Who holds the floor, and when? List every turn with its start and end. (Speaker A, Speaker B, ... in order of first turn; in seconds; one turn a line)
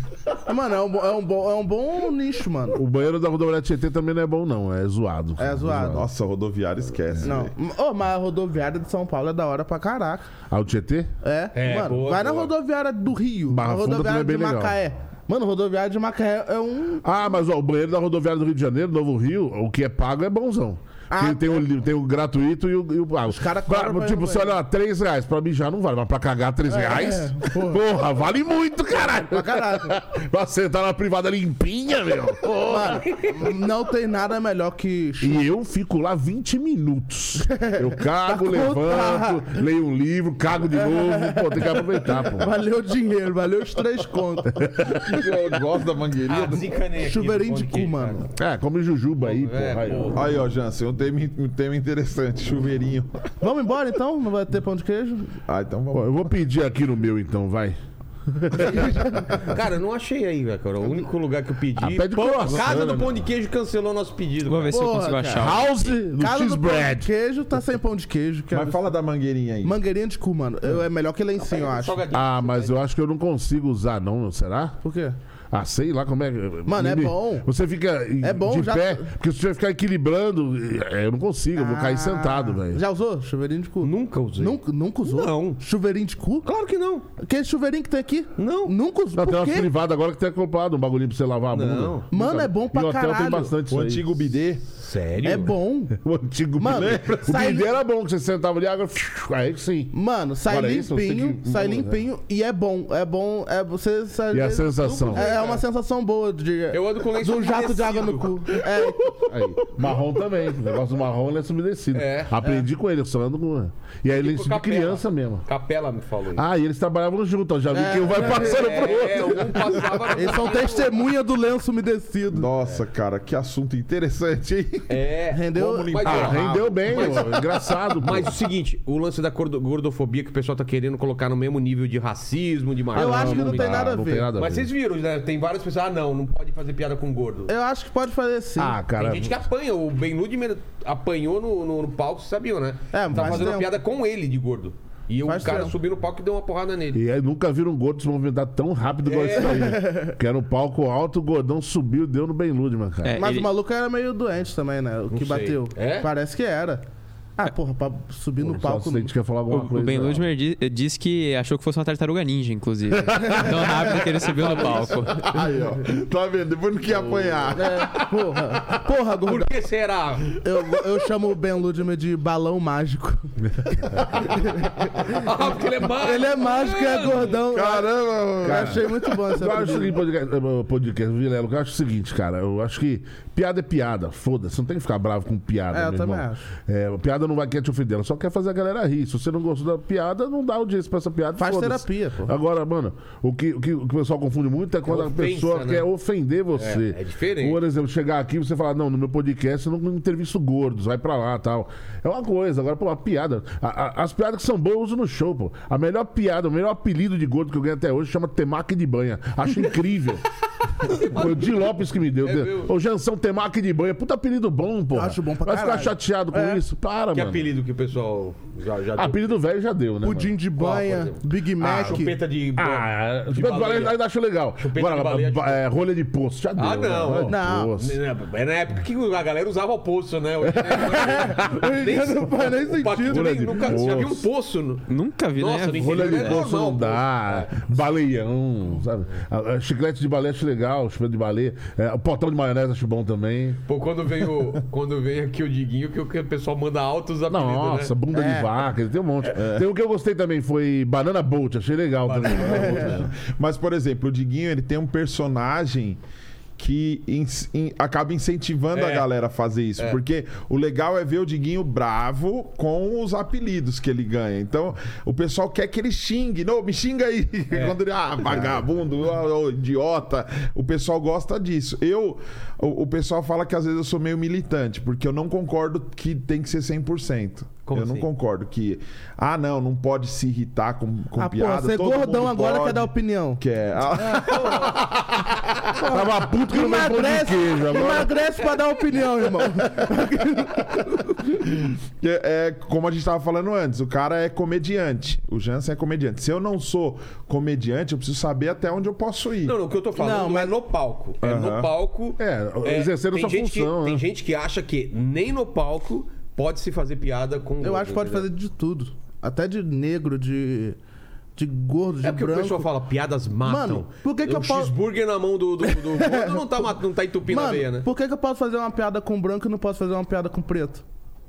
Speaker A: 0.5-2.8
Speaker B: 2.7-6.1
Speaker A: 5.4-6.0
Speaker C: 5.9-7.5
Speaker A: 7.2-10.3
Speaker B: 10.5-11.1
Speaker A: 11.2-17.0
Speaker D: 11.5-12.5
Speaker B: 13.5-14.8
Speaker B: 17.0-33.1
Speaker A: 21.1-21.6
Speaker A: 23.3-24.5
Speaker A: 26.7-27.8
Speaker A: 28.9-30.0
Speaker A: 32.6-35.4
Speaker B: 35.2-42.5
Speaker A: 37.5-39.6
Speaker A: 40.7-44.8
Speaker B: 44.5-45.3
Speaker C: 44.8-46.7
Speaker D: 46.3-48.2
Speaker A: 47.0-48.3
Speaker B: 48.4-50.2
Speaker D: 49.2-50.3
Speaker C: 50.1-53.2
Speaker A: 53.4-55.4
Speaker C: 55.4-56.3
Speaker B: 55.9-57.8
Speaker B: 58.3-59.4
Speaker D: 59.4-64.9
Speaker B: 61.8-63.2
Speaker E: 64.4-65.9
Speaker A: 64.7-68.8
Speaker B: 65.3-67.1
Speaker C: 68.5-69.8
Speaker A: 69.6-72.0
Speaker D: 71.4-72.8
Speaker B: 72.1-74.8
Speaker A: 74.8-75.1
Speaker B: 75.5-82.8
Speaker A: 76.7-77.5
Speaker A: 78.2-79.1
Speaker A: 81.5-86.5
Speaker D: 83.8-85.6
Speaker D: 86.4-87.0
Speaker A: 87.2-89.7
Speaker D: 88.4-88.8
Speaker B: 89.1-94.2
Speaker D: 91.5-92.0
Speaker A: 92.1-93.5
Speaker C: 93.7-94.6
Speaker D: 94.8-95.5
Speaker A: 95.2-96.0
Speaker B: 96.0-99.9
Speaker A: 96.6-97.7
Speaker C: 96.7-97.3
Speaker A: 99.9-109.3
Speaker B: 100.5-102.0
Speaker B: 104.3-105.3
Speaker D: 104.8-105.6
Speaker D: 106.7-108.5
Speaker B: 109.2-115.4
Speaker D: 111.9-112.3
Speaker D: 114.1-116.5
Speaker B: 116.3-120.0
Speaker A: 117.7-118.9
Speaker D: 118.1-120.9
Speaker A: 120.1-122.5
Speaker C: 122.3-127.3
Speaker D: 124.9-137.5
Speaker A: 125.3-125.9
Speaker B: 126.0-128.4
Speaker A: 132.9-134.3
Speaker B: 132.9-134.7
Speaker A: 137.5-138.8
Speaker B: 138.6-139.4
Speaker D: 139.0-147.0
Speaker A: 142.9-143.7
Speaker B: 143.2-143.4
Speaker A: 145.2-145.7
Speaker B: 146.9-153.2
Speaker D: 149.0-149.8
Speaker A: 149.5-150.1
Speaker E: 153.0-153.5
Speaker A: 153.2-156.8
Speaker D: 155.1-156.1
Speaker A: 157.4-159.1
Speaker B: 158.4-160.3
Speaker E: 159.5-165.3
Speaker B: 162.9-163.7
Speaker C: 164.1-167.9
Speaker D: 164.2-165.1
Speaker D: 166.9-167.6
Speaker A: 167.5-169.5
Speaker D: 169.2-170.4
Speaker A: 170.4-175.2
Speaker D: 175.0-177.4
Speaker A: 176.0-179.9
Speaker C: 177.5-179.1
Speaker B: 178.4-178.8
Speaker B: 179.3-210.2
Speaker A: 185.7-186.4
Speaker A: 191.4-192.3
Speaker D: 194.9-195.9
Speaker D: 196.6-197.6
Speaker B: 210.8-217.5
Speaker D: 211.1-211.4
Speaker D: 212.2-212.7
Speaker A: 214.9-216.6
Speaker D: 217.1-219.3
Speaker B: 219.0-220.3
Speaker A: 220.0-222.2
Speaker D: 220.6-224.0
Speaker B: 221.6-228.0
Speaker D: 224.6-225.6
Speaker D: 226.6-237.7
Speaker A: 227.3-227.7
Speaker A: 230.6-233.9
Speaker B: 233.1-234.2
Speaker E: 234.9-236.4
Speaker B: 235.8-243.6
Speaker D: 243.7-247.9
Speaker B: 247.3-253.1
Speaker A: 248.1-248.5
Speaker C: 249.3-249.7
Speaker D: 252.1-253.1
Speaker A: 252.5-253.0
Speaker C: 252.8-256.0
Speaker C: 256.6-285.3
Speaker D: 258.7-259.1
Speaker D: 267.5-268.6
Speaker D: 277.6-278.1
Speaker A: 281.1-283.4
Speaker D: 284.1-284.9
Speaker A: 284.1-284.5
Speaker A: 285.8-291.1
Speaker B: 285.8-288.1
Speaker C: 291.4-299.5
Speaker D: 299.4-308.3
Speaker A: 299.9-300.5
Speaker C: 301.2-301.7
Speaker B: 302.2-304.1
Speaker A: 307.6-310.8
Speaker A: 311.4-312.7
Speaker D: 312.0-317.9
Speaker A: 313.4-314.8
Speaker A: 315.6-316.7
Speaker A: 317.3-320.8